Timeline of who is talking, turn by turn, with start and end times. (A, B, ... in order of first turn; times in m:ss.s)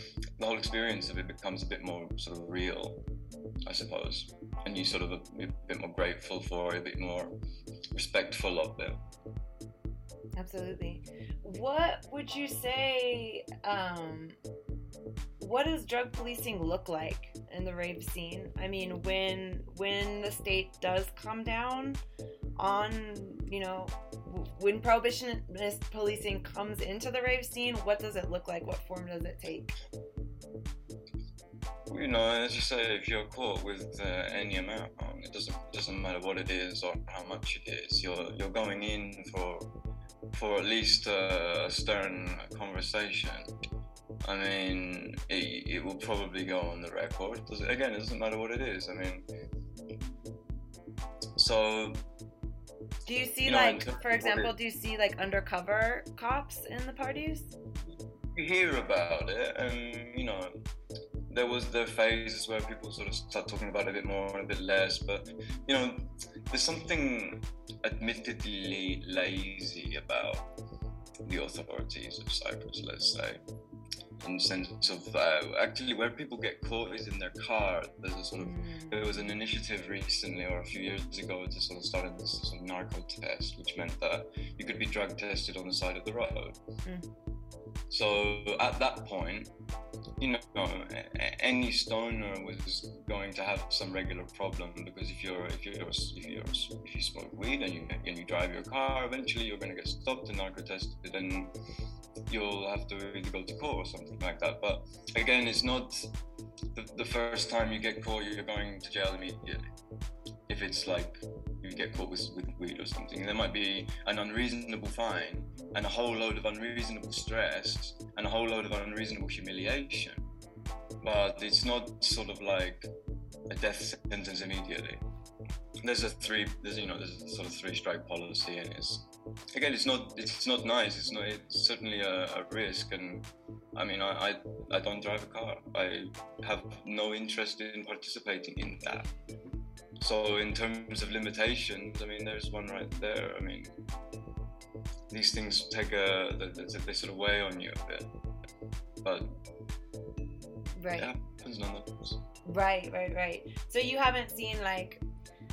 0:00.4-0:03.0 A
0:03.7-0:07.4 A
0:07.9-0:09.0 A
0:10.4-0:14.4 B
0:15.4-0:22.0 B
0:22.6-0:29.7 B
0:31.9-0:39.7 A
0:40.3-0:43.5 A
0:44.2-0:49.3 A
0:51.4-0:52.1 A
0:53.1-0:57.6 B
0:53.4-0:54.5 A
0:58.4-1:00.6 A
1:01.3-1:10.5 A
1:11.2-1:13.4 A
1:14.2-1:26.6 A
1:18.4-1:19.3 B
1:27.9-1:29.5 A
1:30.2-1:41.6 A
1:42.3-1:46.1 A
1:46.8-1:49.7 A
1:50.5-2:00.3 A
2:01.0-2:02.9 A
2:03.5-2:05.0 A
2:05.8-2:19.1 A
2:20.0-2:23.7 A
2:25.1-2:28.1 A
2:29.0-2:29.4 A
2:30.8-2:31.1 B
2:31.0-2:32.2 A
2:32.5-2:35.0 B